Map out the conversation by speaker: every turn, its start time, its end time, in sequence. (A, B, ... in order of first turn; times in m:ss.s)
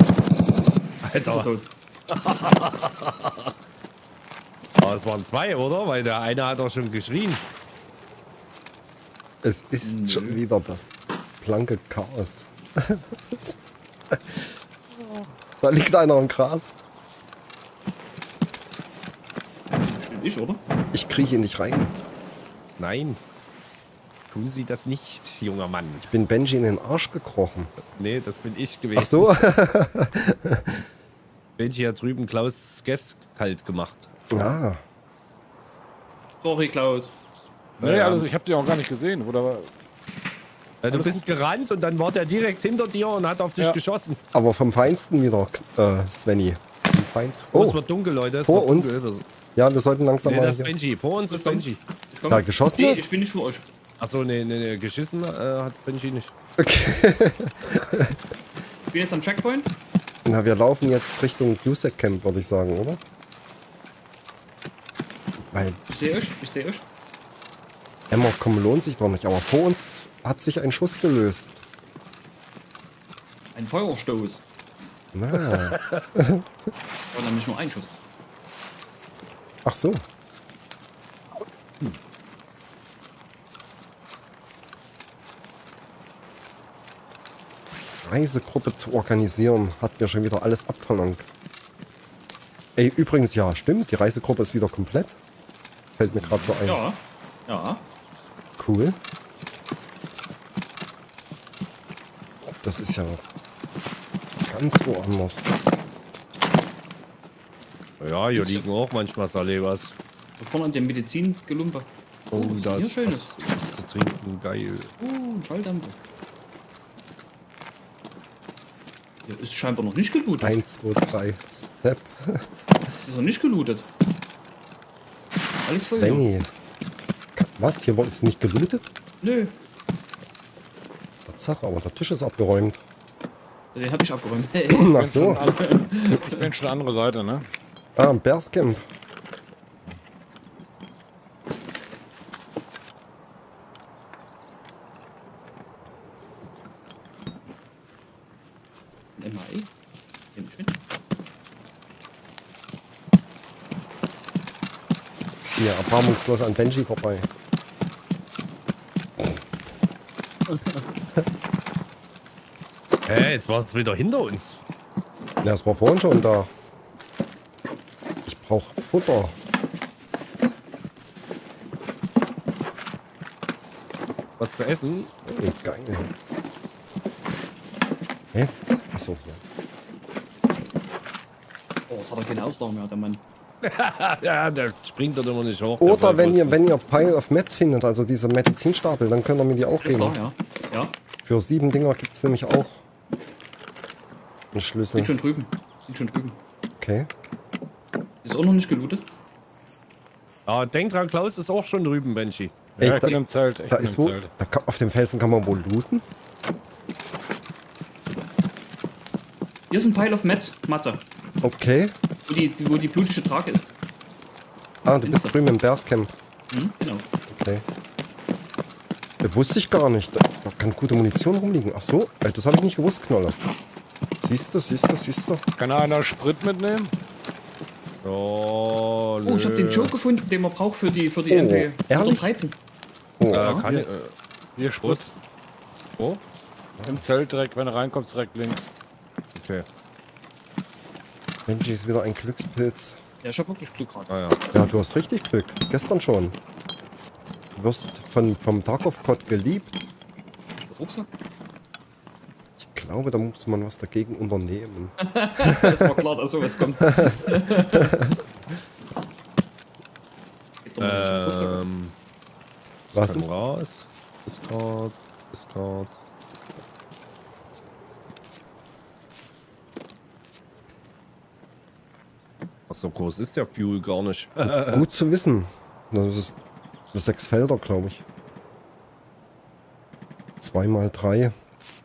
0:01.0-0:01.5 A
0:01.2-0:01.7 B
0:02.1-0:03.5 A
0:04.8-0:07.4 A
0:09.4-0:13.6 C
0:09.8-0:10.4 B
0:14.1-0:16.7 C
0:19.9-0:20.6 B
0:20.9-0:21.9 C
0:22.8-0:23.2 A
0:24.3-0:26.1 A
0:26.1-0:27.7 C
0:27.9-0:29.3 A
0:29.0-0:30.8 C
0:31.6-0:34.5 A
0:34.3-0:34.8 C
0:36.4-0:37.1 B
0:37.8-0:39.7 D
0:37.8-0:38.3 A
0:40.8-0:44.2 A
0:40.9-0:41.4 D
0:44.3-0:47.8 C
0:47.5-0:49.2 A
0:48.4-0:49.0 C
0:49.6-0:50.7 C
0:50.2-0:51.8 A
0:51.3-0:53.7 B
0:52.3-0:53.0 C
0:54.0-0:56.3 A
0:56.6-0:58.2 C
0:58.9-0:59.7 B
1:00.2-1:03.0 C
1:05.4-1:05.8 C
1:05.9-1:06.8 B
1:08.1-1:11.6 C
1:13.6-1:14.4 B
1:15.1-1:16.4 C
1:15.4-1:16.0 A
1:17.1-1:17.9 B
1:19.6-1:20.0 C
1:28.0-1:31.3 C
1:32.8-1:35.2 C
1:36.0-1:36.8 C
1:36.1-1:36.6 D
1:36.7-1:37.8 B
1:38.6-1:39.0 C
1:42.6-1:43.2 C
1:44.5-1:45.5 C
1:48.0-1:50.0 A
1:48.4-1:48.7 B
1:50.4-1:53.4 B
1:52.3-1:54.9 A
1:55.0-1:56.0 B
1:59.3-2:00.6 B
2:00.4-2:02.5 C
2:03.0-2:03.9 B
2:05.6-2:06.2 B
2:05.8-2:06.5 C
2:07.4-2:08.9 C
2:09.2-2:09.5 B
2:11.3-2:12.8 C
2:13.7-2:16.4 B
2:14.7-2:15.4 C
2:14.9-2:17.5 D
2:18.0-2:18.8 C
2:29.2-2:29.7 B
2:30.4-2:30.7 B
2:35.4-2:37.3 C
2:40.5-2:40.8 B
2:43.1-2:44.6 A
2:45.4-2:46.5 C
2:48.3-2:49.4 C
2:54.4-2:55.1 A
2:55.3-2:56.1 C
2:58.3-2:59.4 C
3:01.9-3:03.2 B
3:03.6-3:06.6 A
3:05.8-3:10.2 C
3:09.8-3:11.0 B
3:11.2-3:12.8 C
3:14.5-3:15.1 C
3:15.0-3:16.4 B
3:16.8-3:17.1 C
3:18.2-3:19.1 B
3:20.5-3:22.5 A
3:22.8-3:24.3 D
3:22.8-3:26.0 C
3:29.7-3:31.0 B
3:31.4-3:31.9 C
3:32.3-3:33.7 B
3:34.8-3:36.1 C
3:35.0-3:35.4 B
3:36.5-3:37.0 B
3:37.3-3:37.6 C
3:39.2-3:43.4 C
3:44.2-3:45.4 C
3:45.6-3:46.9 D
3:48.0-3:49.9 A
3:49.2-3:52.6 B
3:51.3-3:52.3 C
3:53.2-3:53.6 C
3:53.3-3:54.1 A
3:53.6-3:54.0 D
3:54.6-3:55.1 D
3:54.8-3:55.1 A
3:56.9-3:58.7 D
3:59.4-3:59.7 A
4:01.5-4:03.0 C
4:03.2-4:04.1 B
4:04.1-4:04.4 A
4:04.5-4:06.4 C
4:07.6-4:09.9 C
4:10.6-4:11.1 B
4:12.6-4:15.0 C
4:15.0-4:17.9 B
4:17.7-4:18.1 C
4:20.6-4:21.6 B
4:20.8-4:22.0 A
4:22.9-4:26.0 A
4:22.9-4:23.3 C
4:32.7-4:34.9 A
4:34.7-4:36.4 C
4:36.9-4:38.0 C
4:40.4-4:41.3 C